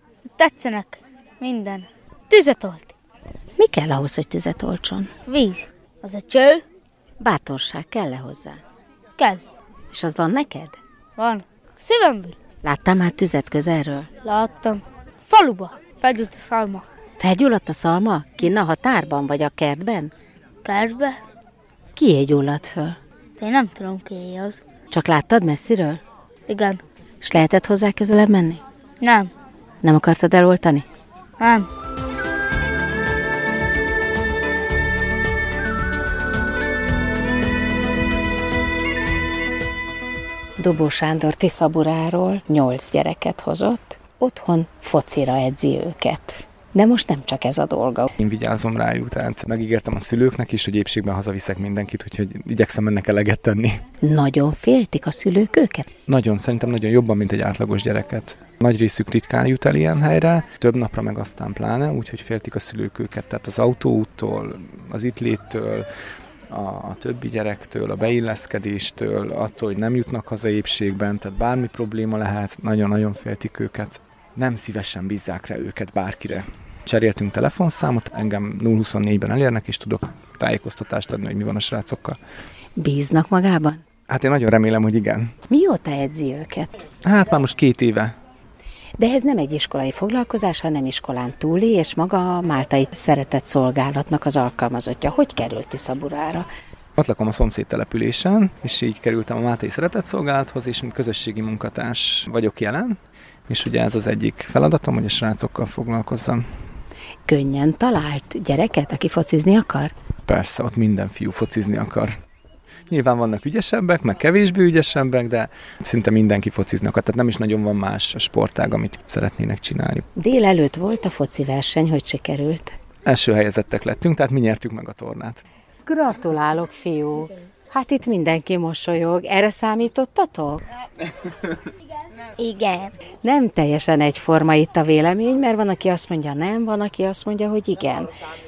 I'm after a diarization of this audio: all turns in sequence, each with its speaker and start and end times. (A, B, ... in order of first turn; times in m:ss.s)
0:00.3-0:03.0 A
0:03.6-0:05.1 B
0:05.3-0:06.6 A
0:07.2-0:08.6 B
0:09.2-0:09.4 A
0:09.9-0:10.8 B
0:11.2-0:12.4 A
0:12.6-0:14.1 B
0:14.2-0:16.9 A
0:17.2-0:20.1 B
0:20.6-0:21.2 A
0:22.0-0:23.0 B
0:23.4-0:24.6 A
0:24.9-0:26.0 B
0:26.5-0:26.8 A
0:27.2-0:28.6 B
0:29.0-0:29.3 A
0:29.8-0:30.9 B
0:31.4-0:31.7 A
0:40.6-0:48.1 B
0:48.2-0:53.8 C
0:54.0-0:55.9 B
0:56.1-1:05.9 C
1:06.5-1:22.2 C
1:22.8-1:23.8 B
1:24.1-1:25.4 C
1:25.5-1:26.8 B
1:27.0-1:28.1 C
1:29.0-1:36.5 B
1:37.0-1:46.4 C
1:47.3-1:49.9 B
1:50.3-1:52.1 C
1:52.9-2:00.1 C
2:00.2-2:02.7 B
2:03.0-2:05.4 C
2:05.8-2:10.6 B
2:12.4-2:12.9 A
2:13.2-2:18.1 B